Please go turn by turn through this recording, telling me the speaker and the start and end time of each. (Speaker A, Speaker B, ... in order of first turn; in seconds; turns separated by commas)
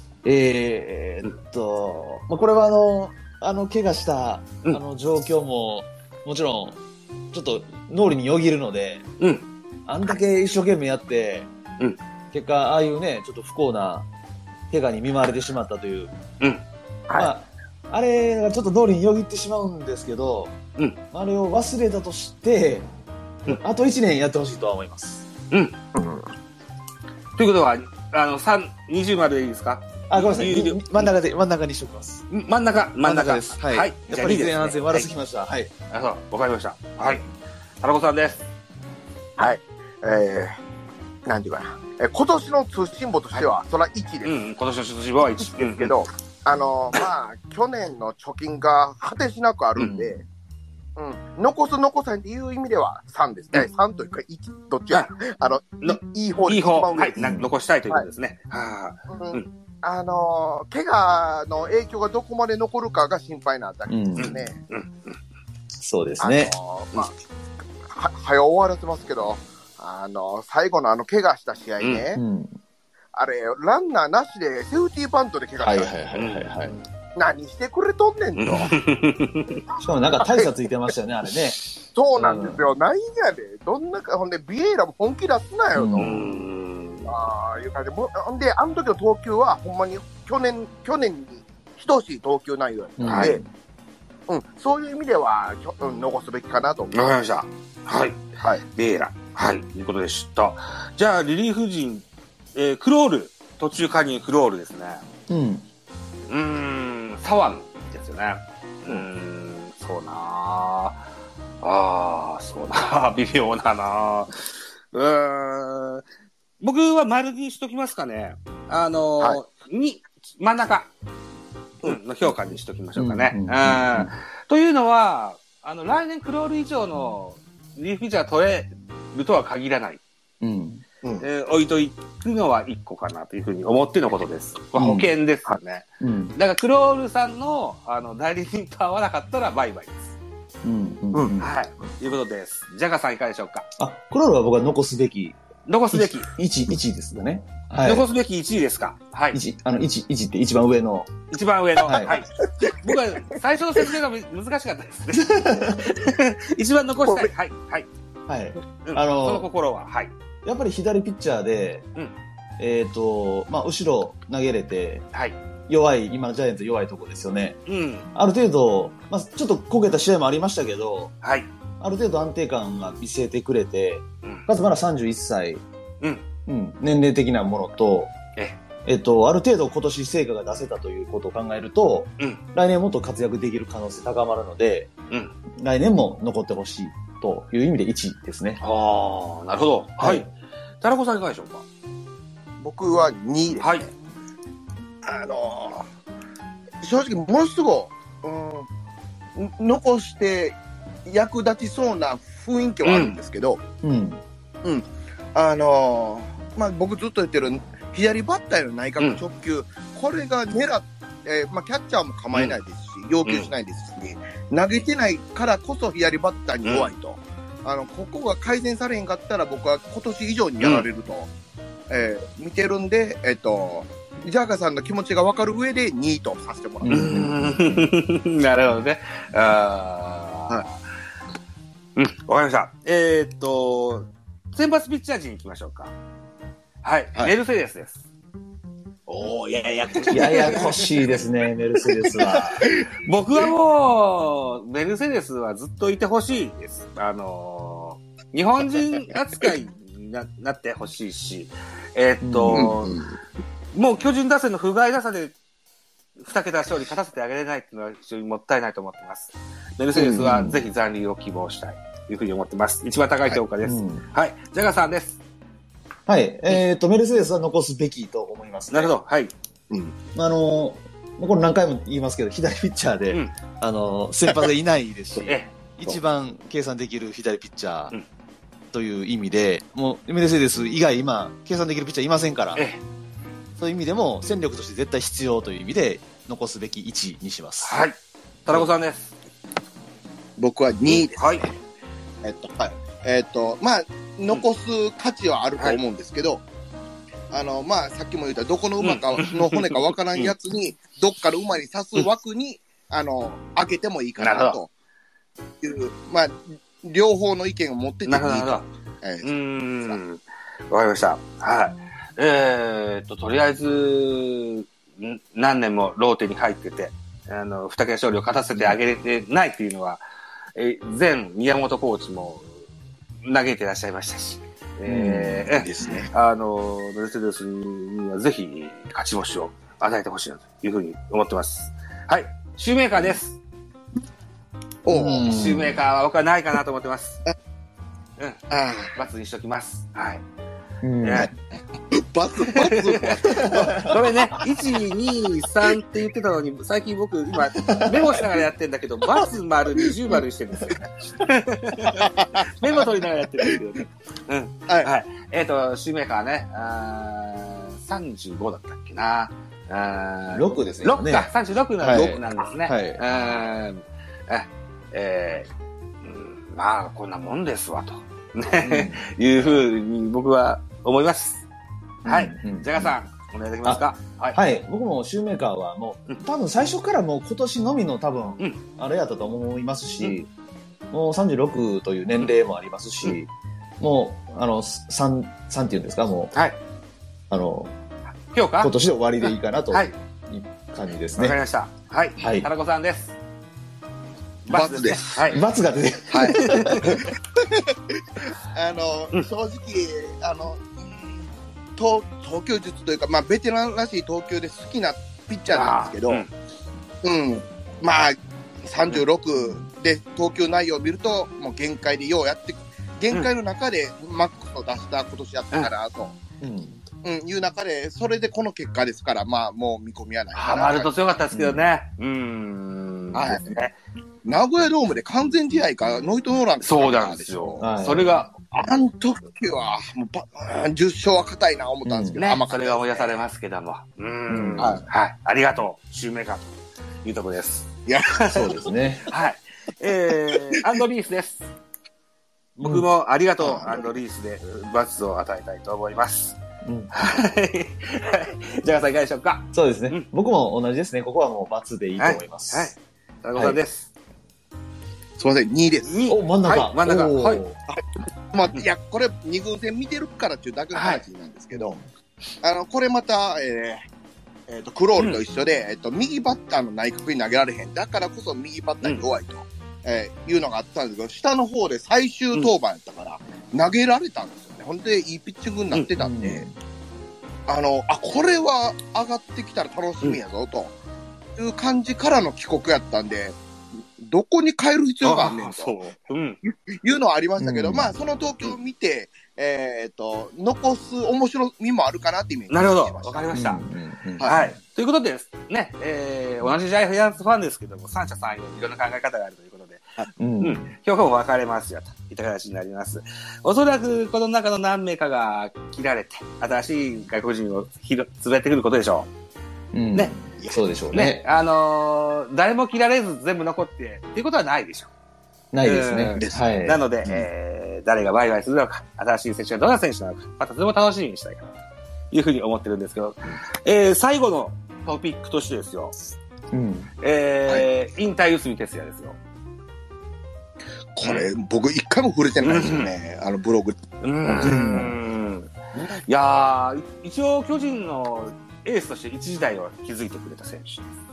Speaker A: 0.2-6.8, Speaker A: 7.3-9.0, Speaker B: 9.2-9.4, Speaker A: 9.9-11.5, Speaker A: 12.3-14.1, Speaker A: 14.7-16.1, Speaker A: 17.1-20.5, Speaker A: 21.1-22.9, Speaker A: 23.4-25.2, Speaker B: 25.5-25.8, Speaker C: 25.9-26.2, Speaker B: 27.4-31.1, Speaker A: 30.1-32.2, Speaker B: 32.3-35.1, Speaker A: 33.0-35.7, Speaker B: 35.9-37.2, Speaker B: 37.8-38.4, Speaker C: 39.4-40.6, Speaker C: 41.2-44.3, Speaker B: 44.2-45.9, Speaker C: 45.4-50.2, Speaker B: 49.8-50.1, Speaker C: 51.0-57.2, Speaker B: 55.8-59.5, Speaker A: 57.2-57.5, Speaker C: 59.1-64.6, Speaker A: 63.9-64.3, Speaker B: 64.2-65.2, Speaker A: 65.8-66.5, Speaker C: 66.2-67.2, Speaker C: 67.8-72.2, Speaker A: 72.1-72.6, Speaker C: 73.1-76.0, Speaker A: 75.6-76.8, Speaker B: 76.1-76.8, Speaker C: 77.2-78.7, Speaker B: 78.3-79.6, Speaker A: 79.8-81.6, Speaker C: 80.2-80.5, Speaker C: 81.9-86.2, Speaker B: 82.2-82.5, Speaker A: 82.2-82.5, Speaker A: 85.7-86.2, Speaker B: 86.0-87.1, Speaker C: 87.0-93.4, Speaker A: 93.0-93.5, Speaker B: 93.0-93.4, Speaker C: 94.3-96.9, Speaker B: 96.9-105.0, Speaker A: 105.3-105.6, Speaker B: 106.3-111.0, Speaker B: 111.6-116.0, Speaker B: 116.6-120.9, Speaker B: 121.8-130.0, Speaker A: 123.0-124.1, Speaker A: 130.4-130.8, Speaker B: 131.2-140.1, Speaker A: 134.8-135.1, Speaker A: 136.0-136.3, Speaker A: 140.6-141.5, Speaker C: 141.1-141.4, Speaker B: 141.4-143.7, Speaker A: 143.8-145.4, Speaker B: 145.7-146.3, Speaker A: 145.9-148.1, Speaker B: 147.8-149.4, Speaker A: 149.3-151.1, Speaker B: 151.3-157.9, Speaker A: 151.8-152.2, Speaker C: 152.4-153.3, Speaker A: 155.1-155.9, Speaker C: 157.1-157.3, Speaker A: 158.3-159.5, Speaker B: 158.8-160.1, Speaker A: 160.4-161.8, Speaker A: 162.6-165.1, Speaker A: 165.7-167.6, Speaker B: 167.7-168.1, Speaker A: 168.1-171.1, Speaker B: 171.2-171.5, Speaker A: 171.8-175.6, Speaker A: 176.4-178.1, Speaker A: 178.8-184.9, Speaker A: 185.6-188.6, Speaker B: 188.6-190.3, Speaker A: 190.0-190.3, Speaker B: 190.8-191.6, Speaker C: 192.6-193.9, Speaker B: 193.6-193.9, Speaker C: 195.0-195.8, Speaker C: 196.8-198.7, Speaker C: 199.3-203.6, Speaker B: 202.8-203.2, Speaker A: 203.8-204.2, Speaker C: 204.6-221.3, Speaker B: 213.2-213.5, Speaker B: 216.6-216.9, Speaker B: 220.6-220.8, Speaker C: 221.9-227.0, Speaker A: 226.8-227.8, Speaker B: 226.9-230.8, Speaker B: 231.9-235.9, Speaker B: 236.8-238.0, Speaker C: 239.1-241.0, Speaker B: 239.8-240.9, Speaker A: 240.1-242.7, Speaker C: 241.8-242.9, Speaker B: 242.9-253.0, Speaker A: 252.2-252.8, Speaker C: 252.5-253.1, Speaker B: 253.7-255.3, Speaker B: 256.2-265.2, Speaker A: 259.9-260.6, Speaker A: 263.6-264.0, Speaker A: 266.1-268.9, Speaker B: 268.7-269.3, Speaker C: 269.7-269.9, Speaker A: 270.1-277.9, Speaker B: 275.2-275.5, Speaker A: 278.7-282.6, Speaker B: 282.6-282.8, Speaker A: 283.6-287.8, Speaker B: 287.6-289.1, Speaker C: 290.4-291.5, Speaker B: 290.9-291.5, Speaker C: 292.2-296.4, Speaker C: 297.3-304.7, Speaker B: 298.8-300.3, Speaker B: 304.2-304.6, Speaker C: 305.6-310.0, Speaker B: 308.1-308.6, Speaker B: 309.2-320.0, Speaker B: 320.5-322.5, Speaker B: 323.2-333.4, Speaker A: 324.9-325.6, Speaker C: 325.6-326.1, Speaker C: 334.8-335.3, Speaker A: 334.9-335.8, Speaker B: 335.2-337.2, Speaker C: 338.5-338.9, Speaker B: 338.9-340.2, Speaker A: 340.8-341.3, Speaker B: 341.0-341.3, Speaker C: 341.9-344.4, Speaker B: 342.4-365.5, Speaker A: 343.3-343.9, Speaker A: 347.7-348.0, Speaker C: 351.9-352.8, Speaker A: 360.3-363.0, Speaker B: 366.0-371.4, Speaker A: 368.6-369.0, Speaker A: 372.0-372.9, Speaker B: 372.0-374.4, Speaker A: 374.3-380.3, Speaker A: 380.9-383.3, Speaker A: 383.8-386.3, Speaker B: 386.3-386.6, Speaker A: 387.3-387.7, Speaker B: 388.3-388.7, Speaker A: 388.6-391.4, Speaker B: 391.1-393.1, Speaker A: 392.2-392.5, Speaker B: 394.4-395.4, Speaker C: 394.5-395.2, Speaker A: 395.3-396.9, Speaker C: 396.1-406.2, Speaker B: 396.2-397.1, Speaker B: 405.5-406.3, Speaker C: 407.0-416.1, Speaker A: 416.4-416.8, Speaker C: 417.0-420.9, Speaker B: 420.3-423.7, Speaker A: 421.3-421.6, Speaker C: 423.1-423.6, Speaker C: 424.2-427.6, Speaker B: 426.6-428.3, Speaker A: 427.6-428.2, Speaker C: 428.5-433.2, Speaker A: 431.8-432.2, Speaker B: 432.2-436.5, Speaker A: 434.3-434.8, Speaker C: 434.6-434.8, Speaker B: 437.0-438.4, Speaker C: 437.9-438.7, Speaker A: 438.3-439.1, Speaker B: 439.1-441.4, Speaker C: 440.3-440.6, Speaker B: 442.6-446.4, Speaker C: 443.4-443.8, Speaker A: 446.6-446.9, Speaker B: 446.9-450.1, Speaker A: 449.5-452.7, Speaker B: 452.0-453.9, Speaker C: 455.2-456.1, Speaker B: 455.8-457.4, Speaker A: 456.1-457.6, Speaker C: 458.3-461.8, Speaker B: 460.7-461.0, Speaker A: 461.5-461.8, Speaker C: 462.4-463.9, Speaker C: 464.5-476.4, Speaker A: 476.0-476.5, Speaker C: 477.5-480.7, Speaker C: 481.4-483.4, Speaker C: 484.0-485.8, Speaker B: 485.0-486.4, Speaker C: 486.4-493.3, Speaker A: 487.4-487.9, Speaker B: 492.5-493.6, Speaker A: 493.3-494.4, Speaker B: 494.2-509.1, Speaker A: 500.2-500.7, Speaker A: 509.7-511.2, Speaker B: 510.9-514.9, Speaker A: 515.5-517.3, Speaker B: 515.6-521.5, Speaker C: 516.2-516.4, Speaker B: 522.1-525.9, Speaker A: 526.5-526.9, Speaker B: 527.0-529.2, Speaker C: 530.9-534.9, Speaker B: 532.4-532.9, Speaker B: 534.0-540.9, Speaker A: 534.4-535.0